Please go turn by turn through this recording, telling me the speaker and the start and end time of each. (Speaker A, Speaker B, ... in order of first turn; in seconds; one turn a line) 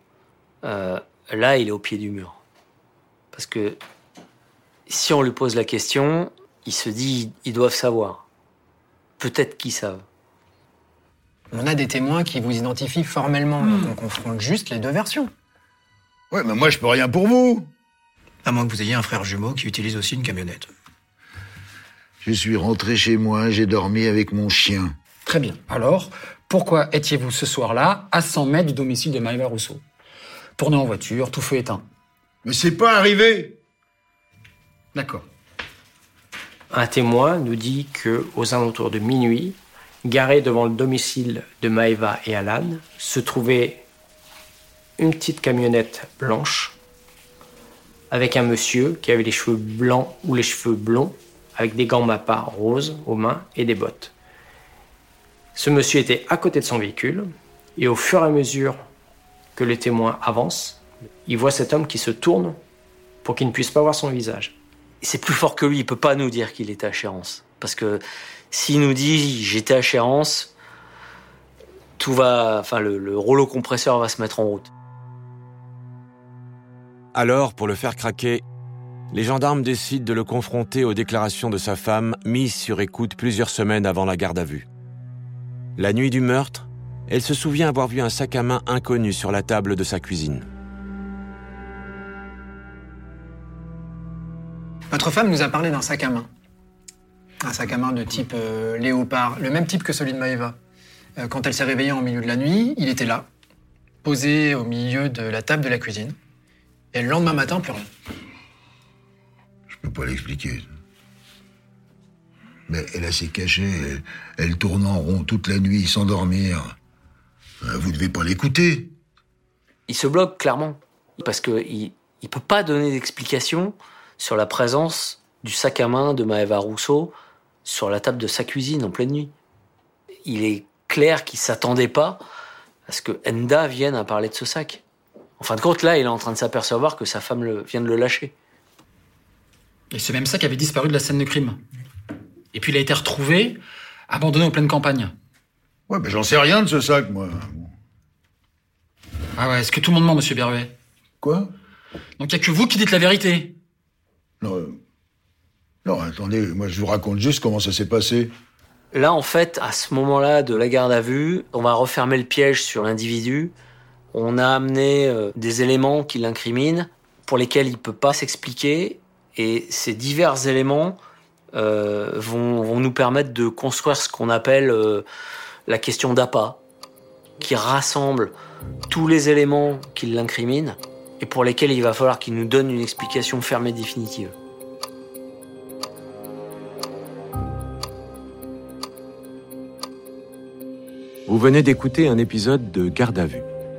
Speaker A: 0.6-2.4
Speaker A: 3.3-3.8
Speaker A: 4.9-8.2
Speaker A: 9.2-10.0
Speaker B: 11.5-15.3
Speaker C: 16.3-17.7
Speaker B: 18.4-20.7
Speaker C: 22.2-25.0
Speaker D: 25.3-29.8
Speaker D: 30.6-31.8
Speaker C: 32.4-33.6
Speaker D: 34.9-35.3
Speaker E: 36.7-43.9
Speaker E: 45.0-46.8
Speaker E: 48.1-54.1
Speaker E: 55.5-58.8
Speaker E: 59.6-62.6
Speaker E: 63.2-64.6
Speaker A: 65.0-70.5
Speaker A: 72.0-74.7
Speaker F: 77.1-78.4
Speaker F: 79.1-84.7
Speaker F: 85.8-90.5
Speaker B: 94.9-96.3
Speaker B: 97.4-100.6
Speaker B: 101.2-103.3
Speaker B: 104.0-106.2
Speaker B: 106.9-107.9
Speaker C: 109.7-110.7
Speaker C: 112.7-116.8
Speaker C: 117.6-118.9
Speaker A: 119.9-127.1
Speaker A: 127.7-129.3
Speaker A: 130.3-132.2
Speaker A: 132.9-134.8
Speaker A: 135.4-138.3
Speaker D: 139.9-141.6
Speaker D: 142.5-145.1
Speaker C: 145.9-147.7
Speaker D: 149.4-150.7
Speaker C: 151.2-151.5
Speaker D: 152.2-153.6
Speaker C: 154.4-154.8
Speaker C: 155.8-158.3
Speaker A: 158.9-163.5
Speaker A: 164.1-171.0
Speaker A: 171.5-175.0
Speaker A: 175.7-176.6
Speaker A: 177.4-178.3
Speaker A: 178.9-184.3
Speaker F: 191.3-193.4